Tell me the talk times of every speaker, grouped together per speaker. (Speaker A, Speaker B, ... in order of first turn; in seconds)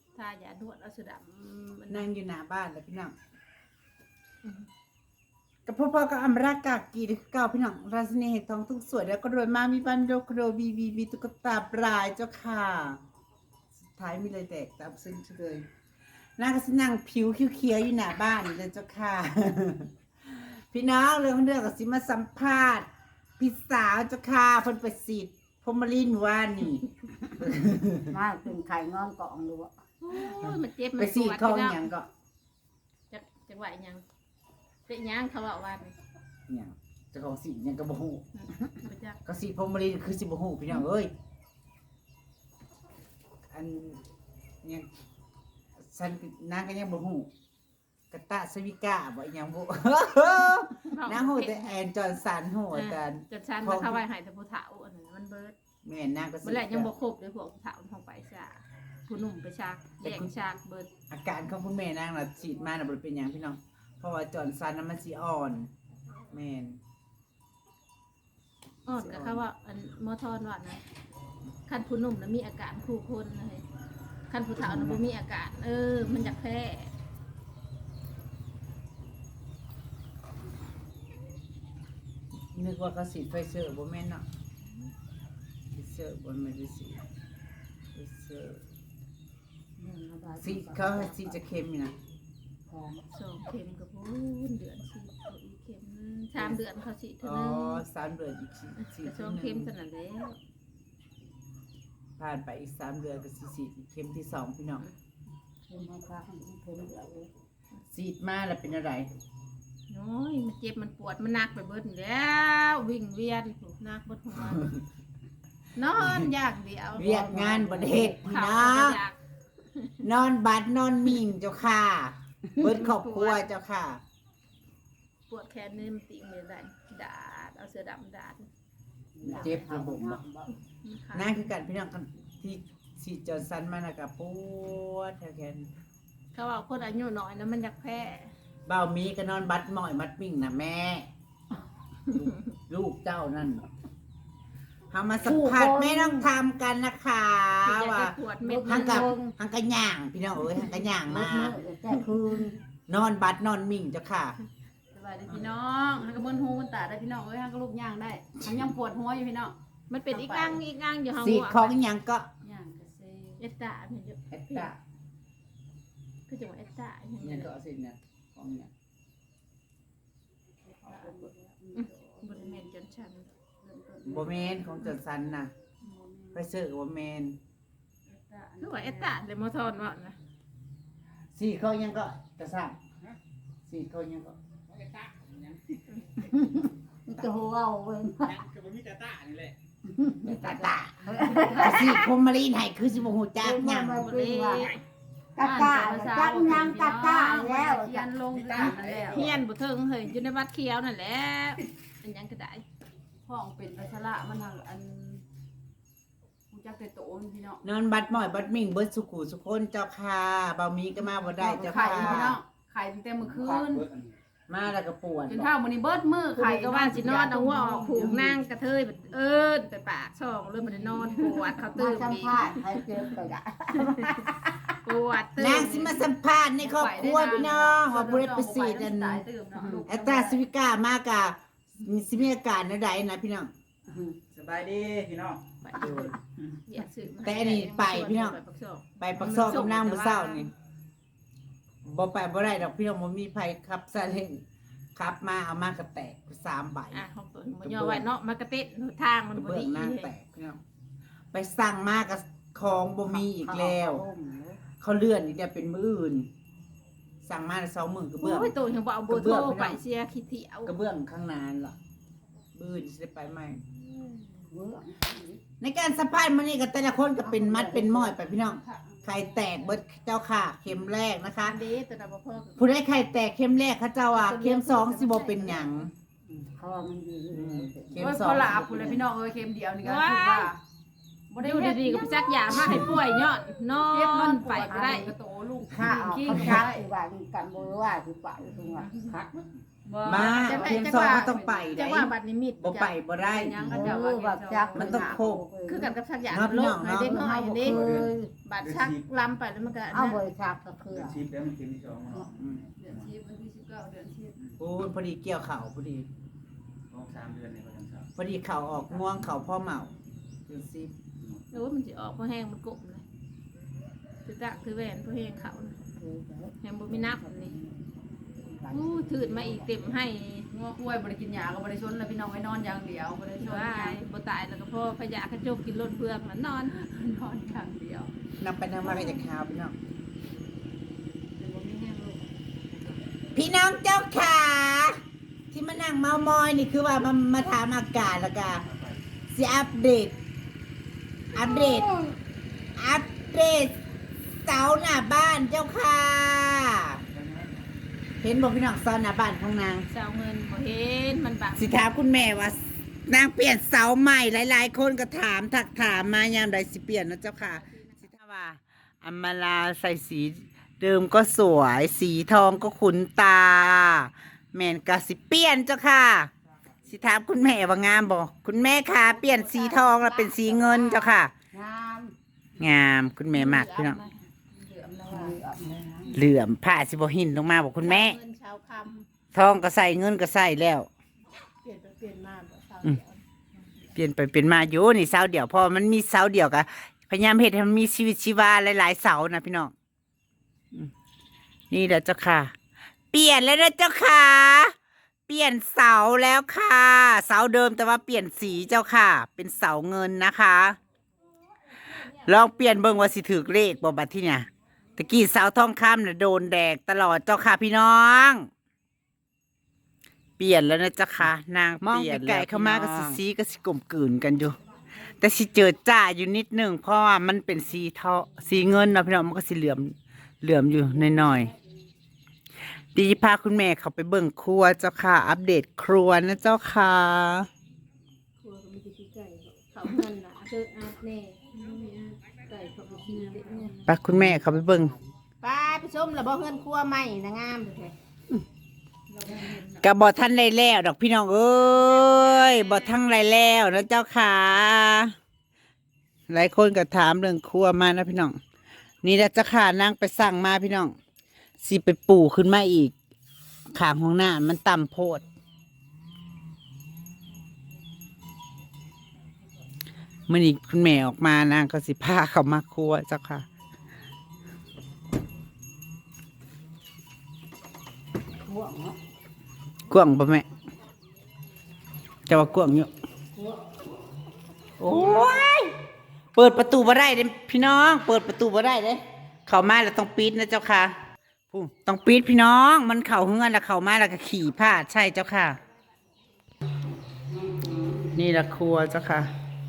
Speaker A: 0.1-2.0, 30.0-31.9, 33.1-34.0, 34.9-36.0, 38.3-39.2, 50.9-51.8, 52.7-55.5, 56.4-60.9, 68.8-70.8, 71.7-73.6, 74.3-76.9, 93.1-97.8, 98.8-100.4, 109.9-114.8, 115.8-117.2, 118.2-119.2, 119.7-120.0, 122.6-123.4, 125.3-128.5, 129.3-129.6, 130.7-131.3, 136.3-138.3, 147.6-149.1, 159.9-161.7, 163.4-164.7, 166.3-167.5, 170.9-173.3, 178.6-180.2, 185.9-186.3, 191.3-192.0, 194.0-194.8, 199.1-202.6, 216.3-222.8, 223.8-226.1, 235.6-236.1, 236.7-240.5, 246.9-250.1, 258.2-260.7, 264.0-264.2, 271.4-272.8, 274.1-275.6, 279.8-280.5, 281.4-285.1, 288.5-289.2, 290.1-293.0, 295.6-300.2, 311.5-313.0, 314.2-315.8, 316.6-317.6, 318.7-320.5, 323.4-328.0, 349.9-351.7, 357.4-358.1, 369.0-371.2, 373.3-374.3, 377.8-379.0, 381.6-383.2, 428.4-433.8, 435.4-437.9
Speaker B: 1.9-3.1, 5.7-13.0, 13.9-15.7, 16.4-22.9, 23.4-28.1, 30.2-32.1, 36.5-38.7, 39.2-41.1, 43.5-44.0, 45.8-47.3, 48.1-54.0, 55.8-56.9, 60.0-60.3, 61.1-65.7, 66.3-66.8, 68.9-69.4, 74.6-75.0, 82.5-84.2, 85.7-87.0, 87.9-88.6, 90.4-91.9, 97.2-99.7, 102.2-104.8, 107.9-109.1, 114.5-114.8, 116.0-116.3, 117.0-119.0, 120.0-124.0, 129.2-130.2, 131.1-135.7, 138.7-141.1, 142.1-143.6, 144.9-151.6, 152.9-154.4, 161.2-162.3, 164.3-164.8, 167.2-168.7, 174.0-175.5, 176.3-177.4, 181.3-182.8, 183.7-184.4, 190.2-194.1, 207.6-212.4, 214.5-215.5, 225.4-229.2, 229.9-233.5, 235.7-236.1, 237.2-238.4, 239.0-240.5, 241.8-244.4, 244.9-247.1, 247.6-248.1, 249.3-250.6, 251.3-254.0, 254.8-256.3, 257.2-258.5, 259.1-259.8, 260.6-261.8, 262.5-263.6, 265.6-271.6, 272.6-275.9, 277.3-279.1, 282.5-282.9, 285.7-286.6, 290.0-293.7, 294.7-295.4, 296.3-297.2, 302.3-302.6, 304.6-306.1, 308.1-309.9, 310.5-310.9, 328.4-329.8, 333.3-335.0, 335.5-338.7, 339.3-340.1, 341.3-342.0, 342.8-343.7, 344.4-347.0, 348.2-349.9, 351.6-366.3, 366.9-371.3, 372.6-374.0, 376.1-378.2, 379.3-380.9, 383.9-389.7, 391.7-392.5, 393.1-394.7, 395.3-400.8, 401.9-408.4, 410.4-414.6, 415.2-421.5, 422.9-427.5, 433.9-435.0, 439.8-445.1, 446.3-448.4, 449.0-450.9, 451.6-452.9, 453.7-455.2, 460.3-463.4, 469.9-470.4, 472.3-472.9, 474.8-475.7, 476.3-480.9, 481.5-485.6, 488.1-489.3
Speaker C: 28.1-29.7, 89.8-91.3, 92.7-93.0, 105.7-107.3, 117.0-118.1, 129.1-130.5, 145.2-146.3, 148.4-149.3, 151.0-152.5, 170.8-172.0, 173.6-174.2, 175.8-176.4, 186.2-188.4, 189.9-191.8, 193.4-194.7, 195.3-198.8, 211.7-212.2, 221.2-224.6, 229.5-229.9, 233.9-234.2, 253.1-254.6, 264.5-265.4, 267.2-268.1, 276.3-278.5, 284.6-285.1, 285.7-289.4, 293.6-295.9, 297.1-298.3, 299.9-301.2, 315.9-319.9, 371.5-372.1, 375.1-376.1, 421.0-421.4, 468.4-469.0, 473.4-473.6, 487.3-488.1
Speaker D: 154.9-159.5, 160.1-160.6, 162.4-163.4, 170.9-171.3, 173.7-174.4, 178.1-179.2, 195.4-199.3, 203.2-205.2, 206.5-207.6, 211.3-213.9, 215.3-218.4, 221.0-221.6, 226.6-230.4, 278.0-280.6, 281.3-282.4, 283.8-286.9, 289.8-291.8, 293.3-295.2, 302.8-304.5, 320.5-324.0, 327.3-328.1, 331.4-332.4, 374.5-375.4, 439.1-439.7
Speaker E: 184.9-185.6, 188.4-189.5, 234.4-235.4, 301.0-302.3, 306.9-308.0